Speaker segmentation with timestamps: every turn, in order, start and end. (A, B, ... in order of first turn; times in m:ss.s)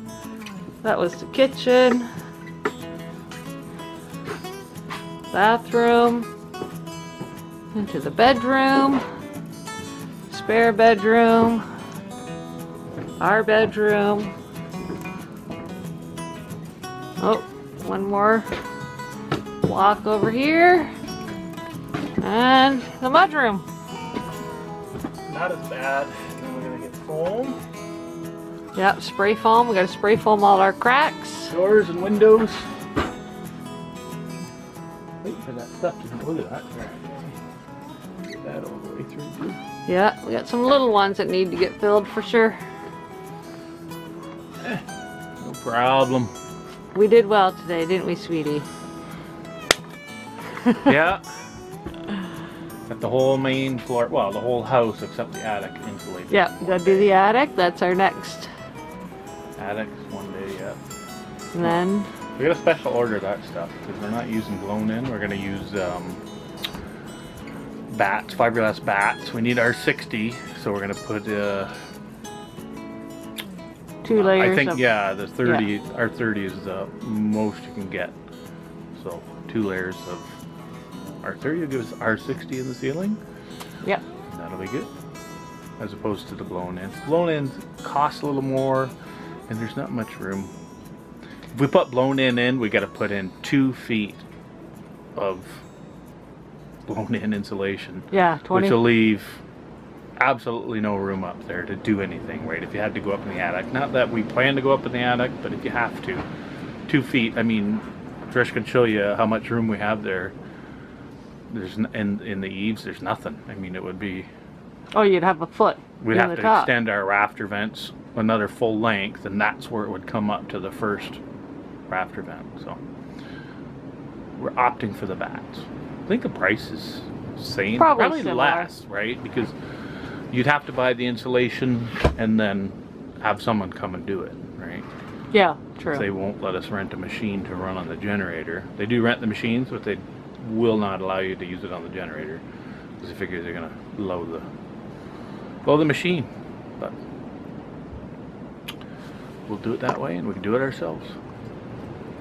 0:00.8-0:02.1 A
0:05.3-0:06.3 A
0:07.7-0:09.0 A
0:10.3-0:11.6 A
0:13.2-0:14.3 A
0:17.2-0:18.5 A
0:19.6-0:20.9 A
0:22.2-0:23.6 A
0:25.3-0:27.6 B
0:28.7-0:31.5 A
0:31.5-0:32.7 B
0:35.2-0:37.4 B
0:38.3-0:39.6 B
0:39.8-0:42.6 A
0:45.4-0:46.3 B
0:46.9-0:48.7 A
0:50.8-0:51.2 B
0:52.9-0:57.1 B
0:56.3-0:58.5 A
0:59.6-1:00.8 B
1:01.5-1:02.1 A
1:02.4-1:06.2 B
1:07.9-1:11.7 B
1:14.0-1:14.9 A
1:14.1-1:18.1 B
1:18.9-1:20.4 B
1:21.2-1:23.2 B
1:24.3-1:24.9 B
1:25.8-1:28.9 B
1:29.5-1:30.5 B
1:31.5-1:34.2 B
1:35.2-1:35.6 B
1:36.9-1:39.4 B
1:38.1-1:38.9 A
1:40.2-1:46.2 B
1:46.9-1:50.3 B
1:51.5-1:54.3 B
1:54.9-1:56.7 A
1:56.0-2:01.2 B
2:01.9-2:02.8 B
2:04.4-2:09.5 B
2:07.8-2:08.7 A
2:10.3-2:14.9 B
2:15.3-2:16.0 A
2:15.9-2:22.4 B
2:23.0-2:24.5 B
2:25.6-2:26.3 B
2:29.5-2:31.1 B